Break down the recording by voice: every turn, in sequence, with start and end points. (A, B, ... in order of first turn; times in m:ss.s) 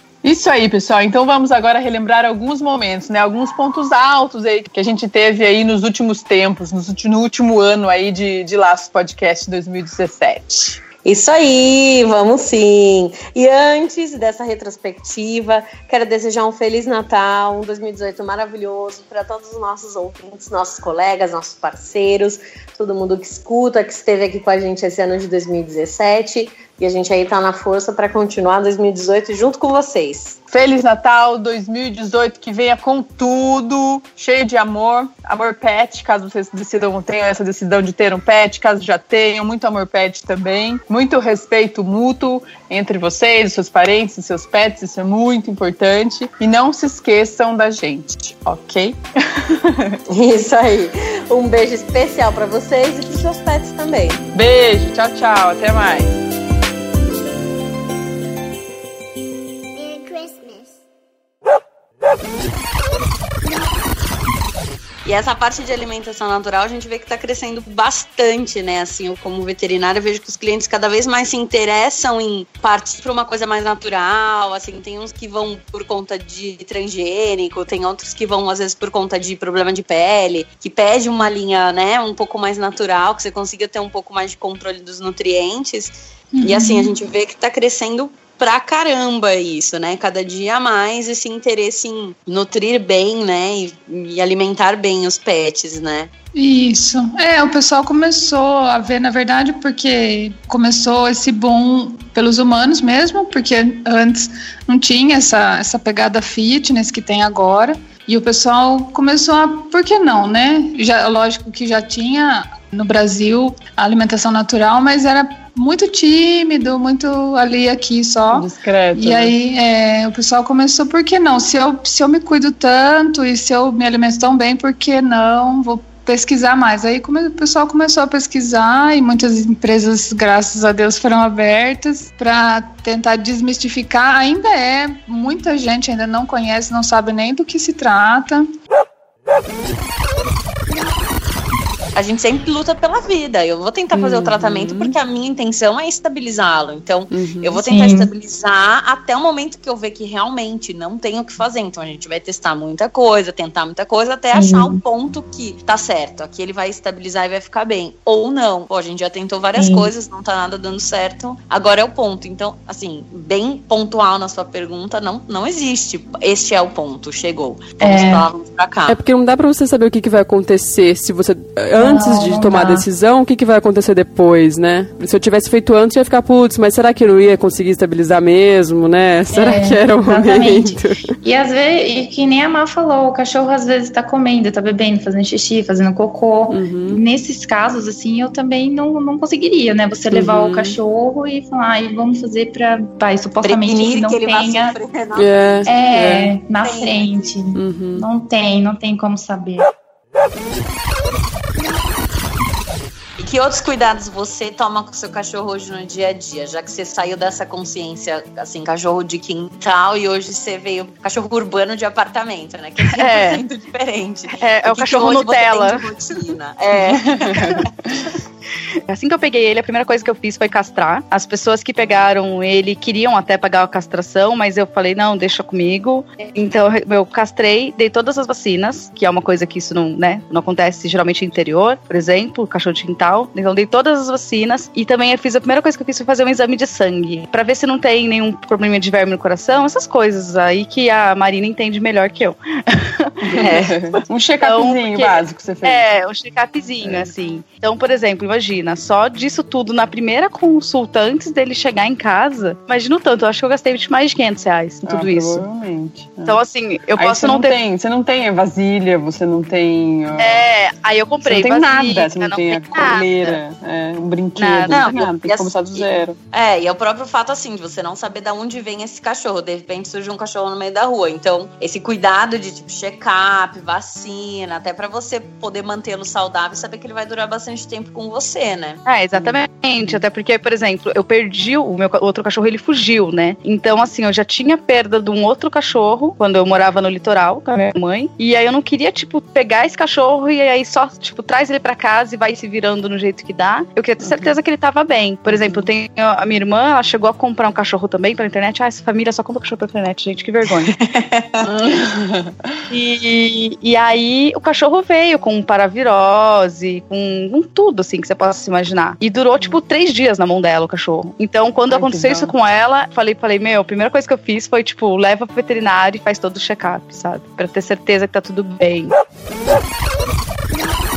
0:00.2-0:10.8 A
0:11.0-0:30.4 B
0:30.5-0:50.0 A
0:50.1-0:54.2 B
0:54.3-0:56.1 A
1:05.0-1:36.1 B
1:26.3-1:26.9 C
1:36.3-2:18.5 C
1:58.3-1:59.4 A
2:21.9-2:49.0 B
2:23.9-2:24.9 D
2:27.1-2:27.6 D
2:27.6-2:28.1 E
2:34.3-2:34.8 E
2:39.6-2:39.9 E
2:47.8-2:48.3 E
2:48.9-3:01.2 D
2:51.8-2:52.9 E
2:59.3-3:14.8 E
3:06.5-3:07.0 D
3:10.1-3:10.8 D
3:13.4-3:15.8 B
3:15.2-3:16.3 D
3:15.6-3:19.7 E
3:16.6-3:17.4 B
3:17.5-3:18.1 D
3:23.2-3:37.6 B
3:32.8-3:33.4 F
3:34.4-3:35.9 F
3:38.9-4:15.4 F
4:03.2-4:05.8 A
4:06.8-4:07.1 A
4:14.8-4:16.4 A
4:16.2-4:17.5 F
4:17.0-4:20.4 A
4:20.2-4:23.4 F
4:21.2-4:26.2 A
4:24.4-4:24.8 F
4:24.7-4:38.8 B
4:38.8-5:00.7 F
4:39.1-4:40.0 A
4:54.0-4:54.3 A
4:55.3-4:55.7 A
5:00.8-5:01.4 B
5:01.5-5:02.4 A
5:02.7-5:18.9 F
5:11.7-5:12.3 A